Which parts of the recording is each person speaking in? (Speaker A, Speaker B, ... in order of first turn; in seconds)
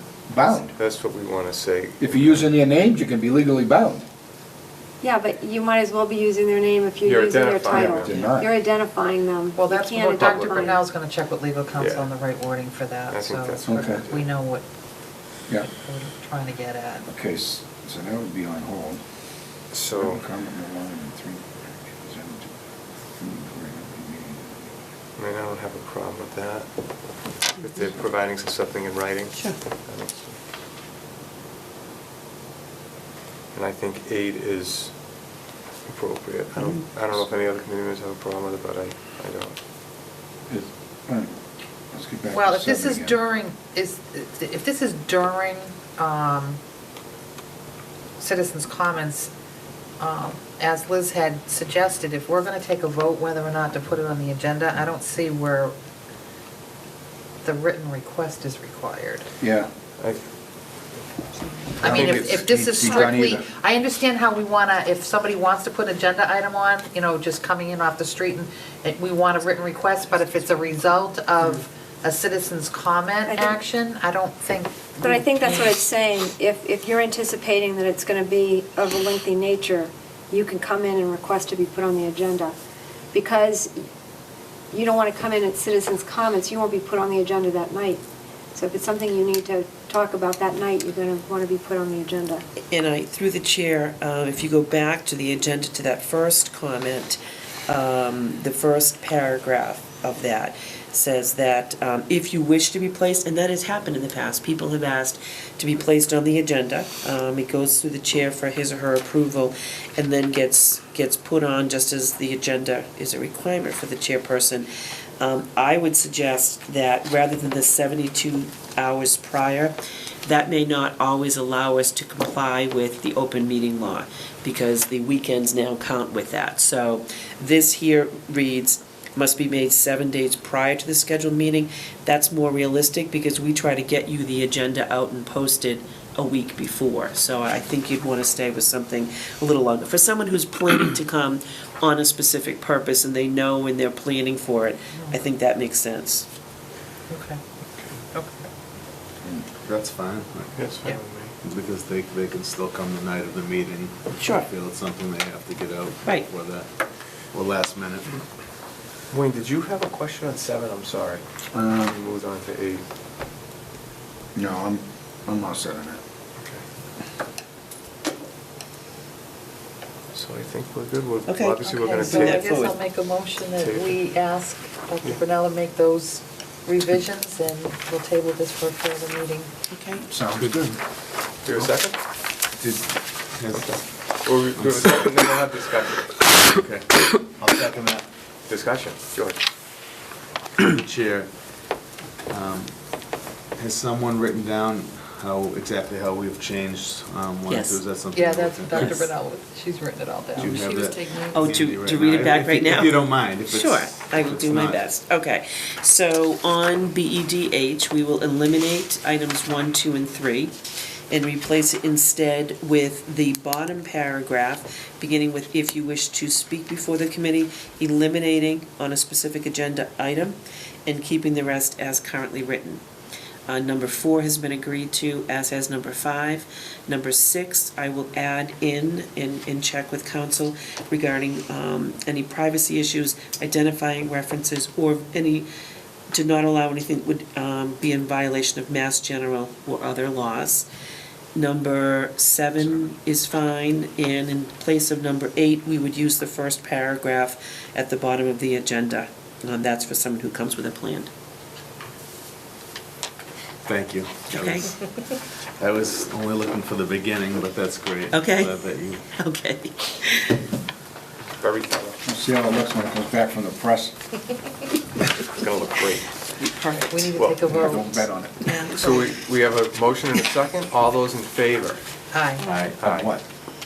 Speaker A: 0.3-0.7, 2.0-4.0, 7.7-8.5, 13.7-14.0, 17.1-19.0, 19.9-22.6, 23.2-24.8, 40.5-41.3, 41.9-43.2, 59.4-59.7, 61.8-63.5, 161.5-162.0, 164.3-166.0, 180.1-180.6, 262.1-264.0, 267.5-268.6, 272.5-273.2
Speaker B: 0.5-2.5, 7.0-8.3, 10.1-10.8, 11.7-12.1, 13.1-14.3, 19.7-20.2, 25.2-30.4, 33.5-39.6, 60.0-60.3, 150.6-151.3, 159.1-162.8, 166.4-166.6, 170.1-172.7, 173.5-174.0, 181.4-182.0, 183.5-186.2, 188.5-189.4, 261.4-262.0, 265.2-266.5, 267.1-267.5, 268.7-271.8, 272.5-273.1
Speaker C: 5.0-10.8, 73.3-73.6, 75.0-82.5, 83.1-83.7, 84.7-88.0, 88.5-92.4
Speaker D: 9.6-14.7, 15.7-17.1, 42.3-46.6, 48.2-49.3, 50.0-55.7, 57.4-59.3, 61.8-75.4, 147.1-147.4, 148.1-148.4, 171.6-179.5, 198.1-201.5, 266.5-269.0, 272.1-272.5
Speaker E: 29.3-29.6, 36.6-36.9, 92.7-114.7, 115.2-119.7, 120.2-146.3, 154.2-154.5, 171.3-172.7, 179.7-180.1, 197.5-197.8, 198.7-199.1, 201.3-210.6, 211.1-222.8, 223.5-235.5, 236.1-240.7, 241.3-251.1, 254.3-254.8, 258.1-258.6, 259.1-260.4
Speaker F: 149.6-150.8, 151.4-158.2, 180.3-180.8, 181.5-181.8, 182.5-185.1, 186.4-188.0, 190.6-199.1, 200.3-204.8, 253.7-259.1